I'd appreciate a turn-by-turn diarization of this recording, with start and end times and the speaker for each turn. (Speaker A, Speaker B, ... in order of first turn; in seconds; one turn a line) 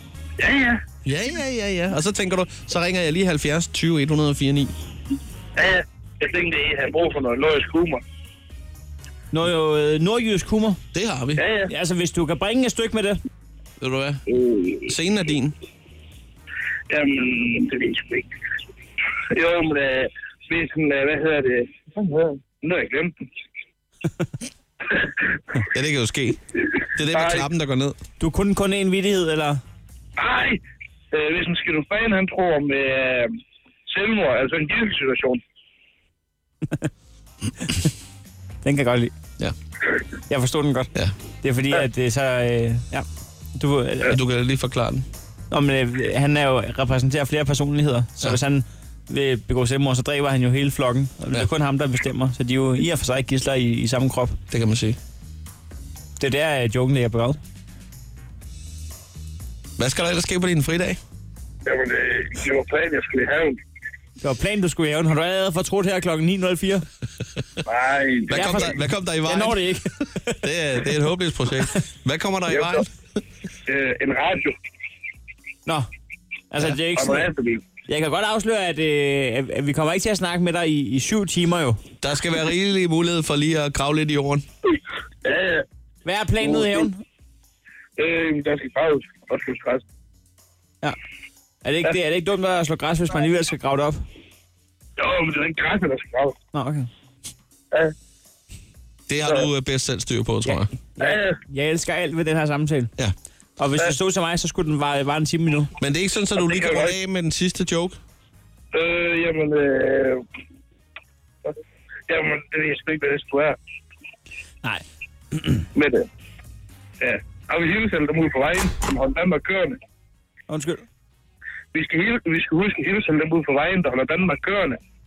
Speaker A: 0.4-0.8
Speaker B: 1.0-4.7
Speaker A: 5.5-8.0
Speaker C: 9.3-10.8
Speaker B: 10.9-11.4
Speaker A: 11.4-11.7
Speaker C: 11.7-13.2
Speaker B: 13.8-14.2
Speaker A: 14.3-14.9
Speaker B: 14.9-15.6
Speaker A: 16.9-18.3
Speaker A: 19.3-23.1
Speaker B: 25.7-26.4
Speaker B: 26.9-28.0
Speaker A: 27.0-27.5
Speaker C: 28.2-29.6
Speaker A: 30.2-30.6
Speaker A: 31.1-33.3
Speaker A: 33.9-35.4
Speaker C: 38.6-39.1
Speaker C: 40.3-44.2
Speaker B: 44.0-45.0
Speaker C: 45.5-54.4
Speaker B: 54.5-55.0
Speaker C: 56.2-57.4
Speaker B: 59.8-61.0
Speaker A: 61.6-63.6
Speaker C: 64.2-66.8
Speaker A: 67.7-68.6
Speaker B: 68.3-69.7
Speaker C: 68.3-68.7
Speaker C: 69.2-70.4
Speaker B: 70.4-72.9
Speaker A: 72.5-72.8
Speaker A: 73.7-74.5
Speaker C: 76.5-77.3
Speaker A: 76.9-77.6
Speaker C: 77.9-81.8
Speaker B: 82.0-84.4
Speaker A: 85.2-85.6
Speaker C: 86.0-87.0
Speaker A: 86.4-86.8
Speaker A: 88.0-89.8
Speaker C: 91.6-94.0
Speaker A: 95.0-96.3
Speaker C: 96.5-96.9
Speaker B: 99.1-100.7
Speaker C: 100.4-102.9
Speaker A: 101.0-101.4
Speaker C: 103.6-105.7
Speaker B: 105.8-108.0
Speaker A: 106.4-106.9
Speaker A: 108.7-110.2
Speaker A: 112.1-113.6
Speaker C: 115.3-115.6
Speaker A: 115.7-116.1
Speaker A: 117.0-119.8
Speaker C: 120.5-120.8
Speaker A: 121.7-124.8